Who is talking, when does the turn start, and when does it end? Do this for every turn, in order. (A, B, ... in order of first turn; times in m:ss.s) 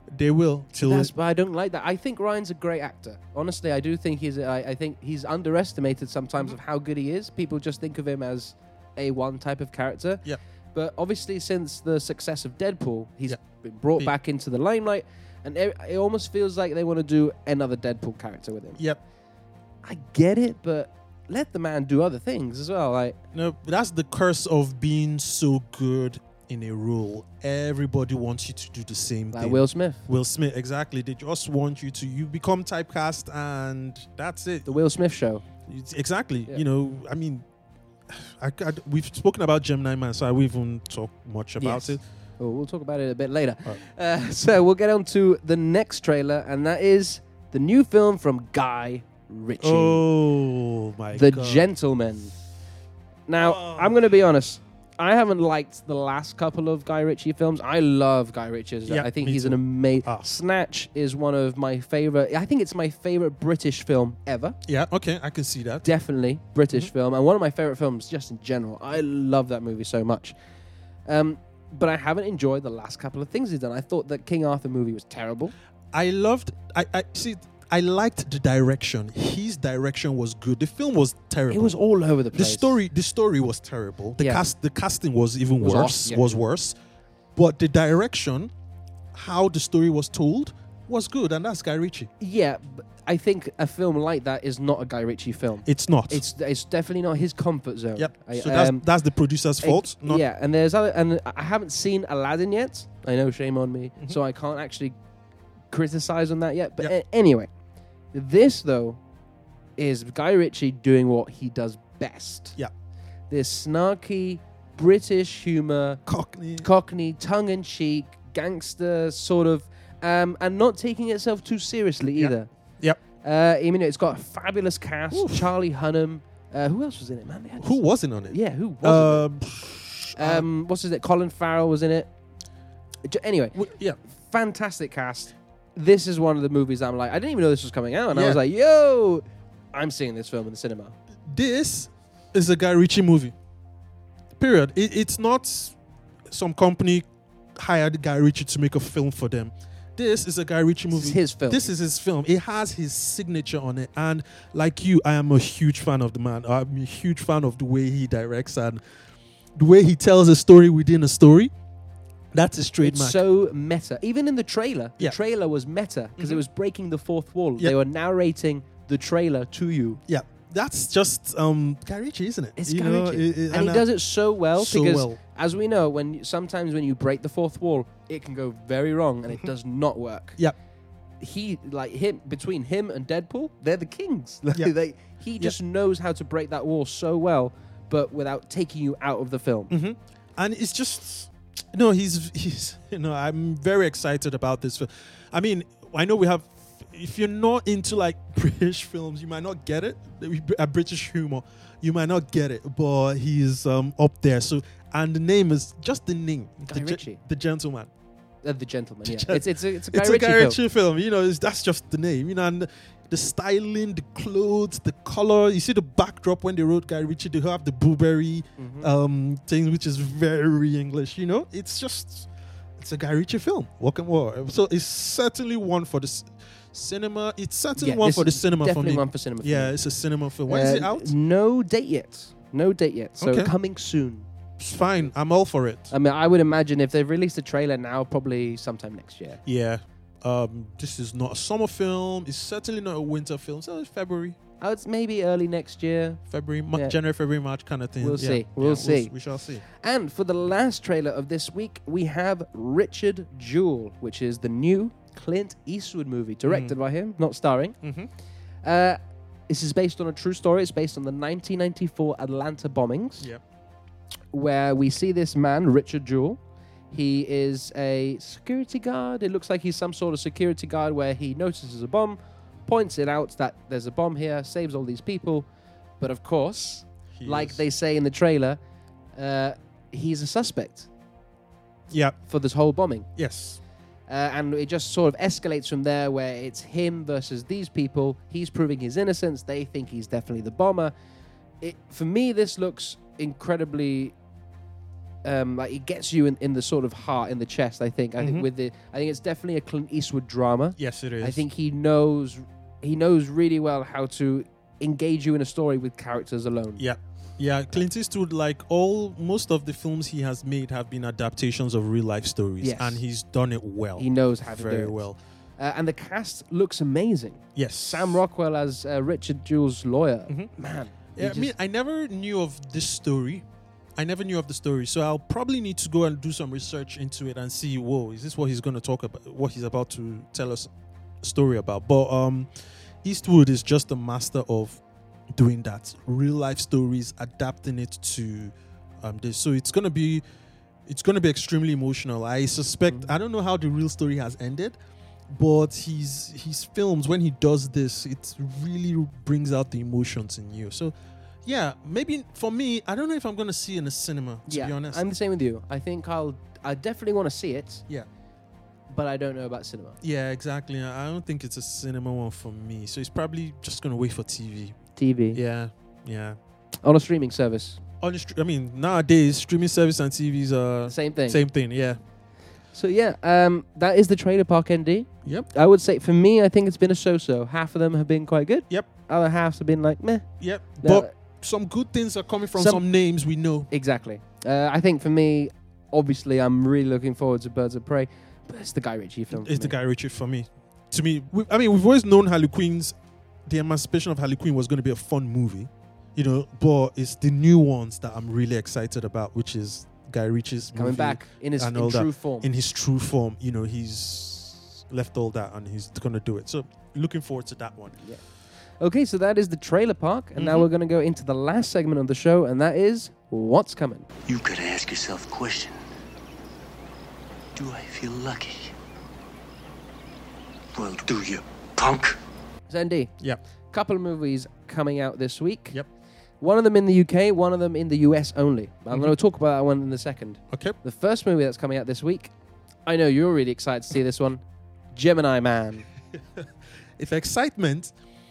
0:00.1-0:01.1 A
0:00.8-0:18.8 B
0:19.8-0:23.2 B
0:23.3-0:34.7 A
0:29.3-0:30.0 B
0:34.7-0:35.4 B
0:35.7-0:37.4 A
0:38.1-0:42.0 A
0:41.6-0:50.0 B
0:49.6-0:51.6 A
0:51.1-0:52.3 B
0:53.3-1:04.6 B
0:53.4-0:54.0 A
0:58.9-1:00.3 A
1:04.6-1:05.9 A
1:05.8-1:10.3 B
1:11.0-1:15.5 B
1:15.9-1:21.8 A
1:21.5-1:22.8 B
1:22.3-1:26.7 A
1:24.2-1:24.4 B
1:25.6-1:26.4 B
1:27.4-1:28.5 A
1:29.1-1:32.1 A
1:32.2-1:38.8 B
1:35.6-1:36.2 A
1:38.0-1:40.2 A
1:39.6-1:44.9 B
1:45.7-1:47.5 B
1:48.1-1:49.0 B
1:49.8-1:52.6 B
1:53.3-1:56.0 B
1:56.0-1:56.7 A
1:56.6-2:02.5 B
2:02.2-2:03.0 A
2:03.2-2:09.2 B
2:05.1-2:05.5 A
2:07.6-2:10.4 A
2:10.1-2:12.1 B
2:13.0-2:13.6 B
2:13.5-2:14.0 A
2:14.2-2:21.0 B
2:18.1-2:18.4 A
2:21.3-2:23.3 A
2:24.4-2:25.8 A
2:26.3-2:27.0 A
2:27.6-2:38.8 A
2:30.9-2:31.6 B
2:39.6-2:41.5 A
2:42.3-2:43.2 A
2:42.8-2:50.0 B
2:50.1-2:53.9 A
2:52.6-3:00.4 B
2:54.5-2:55.2 A
3:01.2-3:09.7 B
3:09.7-3:27.9 A
3:26.6-3:27.2 B
3:28.4-3:30.6 B
3:29.0-3:51.1 A
3:38.6-3:38.9 B
3:47.8-3:49.7 B
3:50.5-3:54.3 B
3:53.2-3:53.5 A
3:54.6-3:55.9 A
3:55.9-3:59.4 B
3:59.4-4:04.4 A
4:04.6-4:06.2 B
4:06.3-4:09.6 A
4:08.0-4:09.1 B
4:09.7-4:17.8 B
4:16.5-4:16.7 A
4:17.8-4:18.1 A
4:18.6-4:19.0 B
4:19.5-4:23.3 B
4:24.3-4:26.4 B
4:26.9-4:35.5 B
4:36.0-4:38.6 B
4:37.1-4:37.6 A
4:39.2-4:40.9 B
4:41.9-4:42.2 A
4:42.3-4:43.1 B
4:43.2-4:43.6 A
4:44.1-4:50.9 B
4:51.6-4:54.1 B
4:55.2-5:06.8 B
4:58.2-4:58.5 A
5:00.8-5:01.4 A
5:06.8-5:15.2 A
5:12.6-5:13.0 B
5:14.0-5:15.0 B
5:15.6-5:21.5 B
5:17.6-5:18.2 A
5:21.2-5:23.4 A
5:24.0-5:30.7 A
5:31.2-5:32.5 A
5:33.0-5:34.8 A
5:35.3-5:40.2 A
5:40.8-5:44.8 A
5:45.3-5:50.9 A
5:51.4-5:55.0 A
5:54.5-5:57.8 B
5:58.9-6:00.0 B
6:00.0-6:04.8 A
6:05.0-6:05.4 B
6:05.3-6:06.4 A
6:06.8-6:07.8 B
6:08.0-6:12.0 A
6:10.9-6:11.4 B
6:12.7-6:20.3 B
6:20.4-6:23.7 A
6:20.8-6:21.1 B
6:22.6-6:22.8 B
6:23.7-6:29.7 B
6:29.3-6:33.0 A
6:33.5-6:48.0 A
6:40.7-6:42.5 B
6:48.8-6:54.1 B
6:50.4-6:50.7 A
6:54.3-6:55.8 C
6:57.5-6:58.7 C
7:00.7-7:02.2 C
7:02.7-7:03.1 B
7:03.7-7:05.8 B
7:06.4-7:12.3 B
7:12.8-7:14.4 B
7:14.9-7:15.9 B
7:17.0-7:17.9 A